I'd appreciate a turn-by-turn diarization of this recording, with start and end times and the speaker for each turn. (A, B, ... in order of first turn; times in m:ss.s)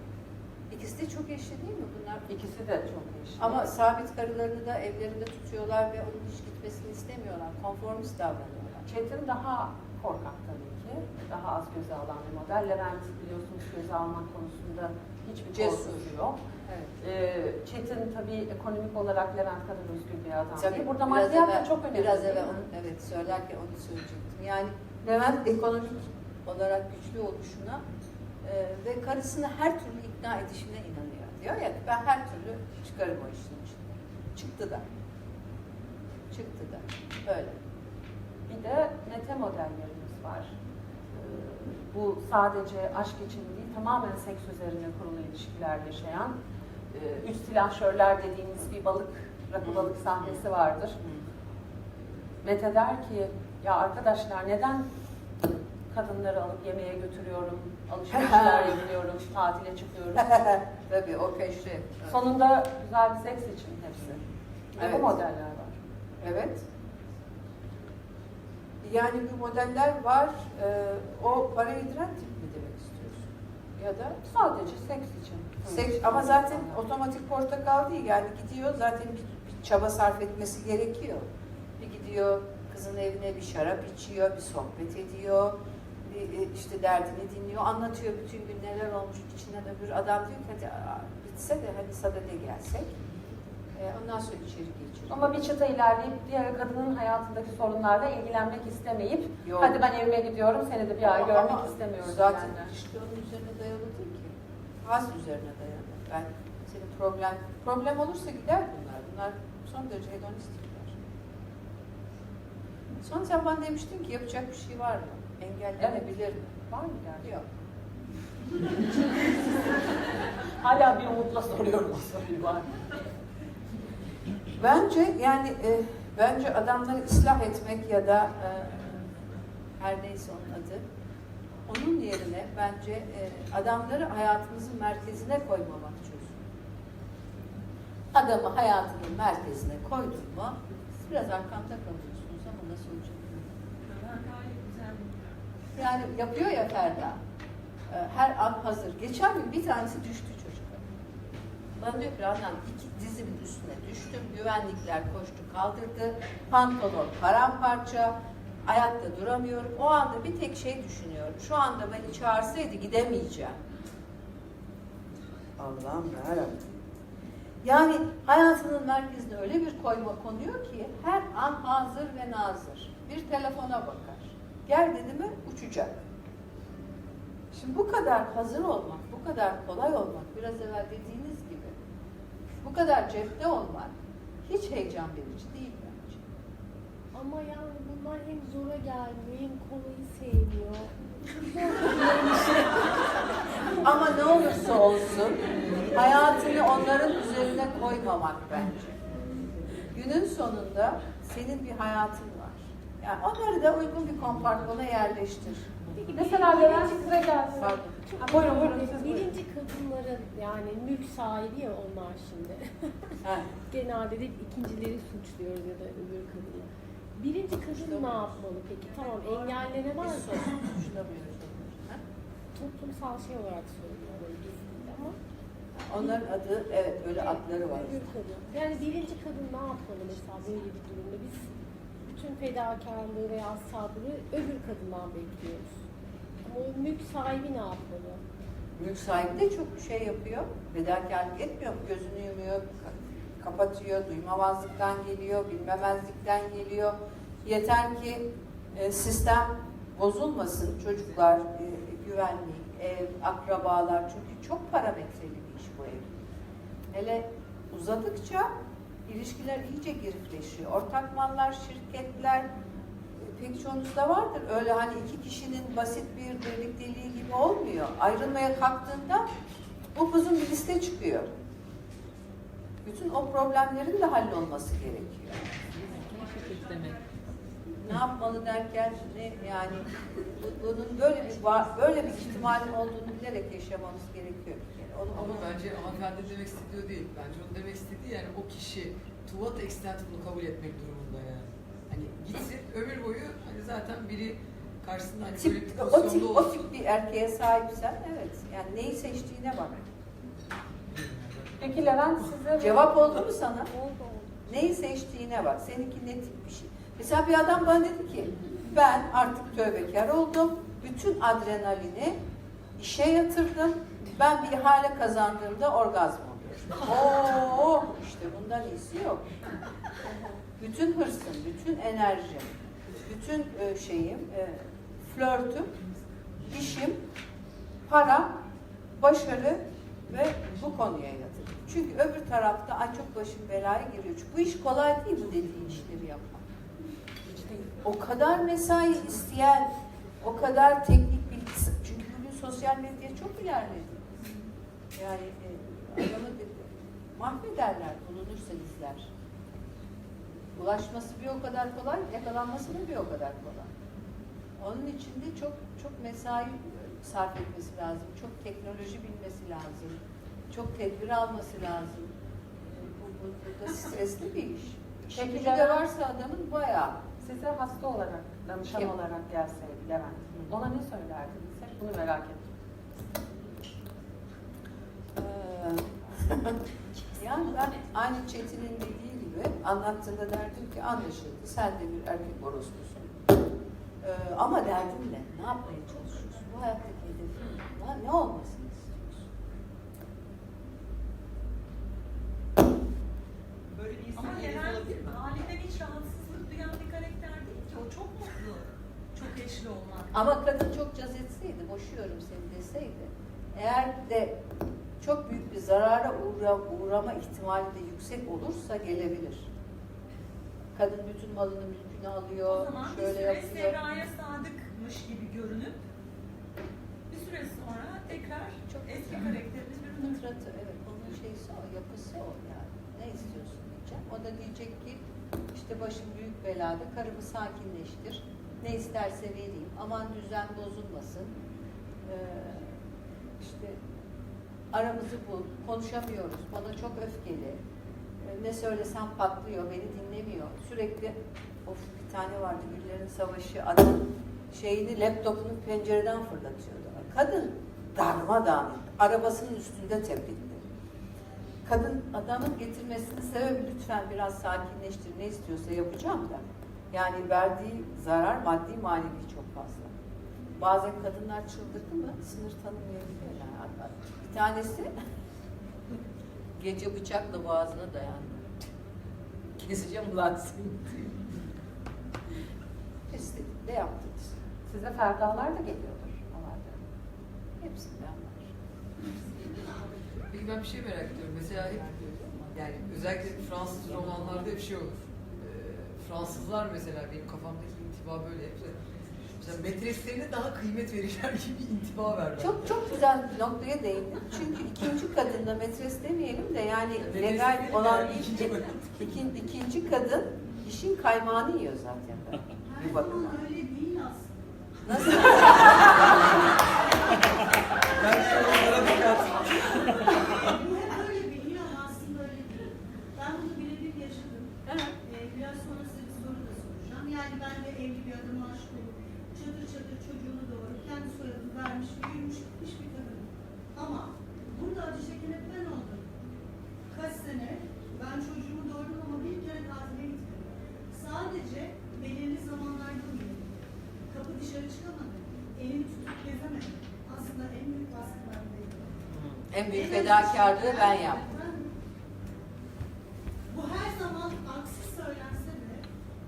0:00.7-0:02.2 A
0:02.3-0:03.7 B
0:03.4-0:08.9 A
0:08.9-0:16.4 B
0:15.5-0:16.9 A
0:17.0-0:22.6 B
0:20.6-0:27.8 A
0:28.4-0:34.9 A
0:36.3-0:37.6 A
0:38.5-0:40.5 B
0:41.1-0:46.3 B
0:46.9-0:51.0 B
0:49.6-0:50.4 A
0:51.0-0:51.2 A
0:52.4-0:54.9 B
0:55.4-1:00.5 B
0:58.1-0:58.8 A
1:00.2-1:02.2 A
1:02.0-1:04.2 B
1:04.7-1:05.8 B
1:04.8-1:05.1 A
1:06.2-1:06.6 A
1:08.8-1:14.2 A
1:14.2-1:16.8 B
1:15.6-1:21.3 A
1:21.8-1:25.5 A
1:26.0-1:33.0 A
1:33.7-1:35.4 A
1:35.1-1:42.7 B
1:39.4-1:39.8 A
1:41.0-1:51.0 A
1:53.0-1:56.6 A
1:55.8-1:56.1 B
1:56.7-1:57.4 B
2:00.6-2:02.7 B
2:04.6-2:09.0 A
2:09.8-2:10.8 A
2:11.7-2:16.4 A
2:18.1-2:23.5 A
2:23.8-2:25.1 C
2:25.7-2:27.2 A
2:27.9-2:30.8 A
2:31.8-2:38.1 A
2:38.6-2:43.6 A
2:45.6-2:46.7 A
2:47.6-2:56.0 A
2:57.5-3:01.7 A
3:02.6-3:06.2 A
3:07.1-3:13.8 D
3:13.8-3:19.0 A
3:19.9-3:28.6 A
3:26.0-3:33.1 D
3:26.1-3:29.3 B
3:33.2-3:33.5 A
3:33.7-3:40.6 D
3:37.7-3:38.4 A
3:39.0-3:39.6 C
3:40.0-3:42.0 A
3:42.5-3:45.2 D
3:45.8-3:48.1 A
3:47.2-3:51.5 D
3:52.1-3:55.7 D
3:56.4-3:58.2 D
3:58.8-4:16.2 A
4:16.9-4:18.5 A
4:19.0-4:22.5 A
4:23.2-4:29.3 A
4:29.9-4:31.3 A
4:32.8-4:35.4 A
4:35.7-4:37.0 E
4:35.8-4:37.0 C
4:37.8-4:45.5 A
4:45.1-4:56.6 E
4:55.3-4:59.9 A
5:00.9-5:02.0 E
5:01.6-5:03.3 B
5:02.6-5:03.7 A
5:03.7-5:04.4 D
5:04.5-5:12.2 A
5:12.8-5:19.2 A
5:20.6-5:25.7 A
5:26.4-5:27.0 A
5:27.9-5:28.3 A
5:29.0-5:36.4 A
5:37.3-5:37.6 B
5:37.8-5:39.7 A
5:40.2-5:44.1 A
5:45.0-5:49.1 A
5:50.5-5:53.7 A
5:54.6-6:00.0 A
6:00.5-6:02.1 A
6:02.6-6:07.0 A
6:05.1-6:05.8 B
6:07.2-6:12.5 B
6:15.2-6:16.6 A
6:17.1-6:23.2 A
6:24.0-6:29.3 A
6:33.8-6:40.1 C
6:33.8-6:35.2 E
6:40.1-6:44.4 A
6:45.0-6:49.5 A
6:50.7-6:53.8 A
6:52.5-6:55.8 C
6:57.1-7:00.2 C
6:58.7-7:11.3 A
7:12.0-7:12.8 A
7:13.4-7:13.8 A
7:14.7-7:17.6 A
7:18.2-7:30.6 A
7:31.6-7:39.9 A
7:40.6-7:44.9 A
7:46.6-7:48.6 A
7:49.6-7:51.0 A
7:53.1-7:54.3 A
7:54.6-7:56.8 B
7:57.6-7:58.5 A
8:00.3-8:08.8 E
8:01.8-8:02.4 A
8:09.4-8:12.8 E
8:12.4-8:23.3 A
8:17.0-8:18.9 E
8:22.6-8:24.3 F
8:24.8-8:26.4 A
8:27.9-8:30.3 E
8:28.0-8:46.1 F
8:34.6-8:34.9 A
8:46.9-8:53.5 F
8:54.1-8:58.9 F
8:59.1-9:01.2 A
8:59.7-9:01.7 F
9:03.5-9:05.8 F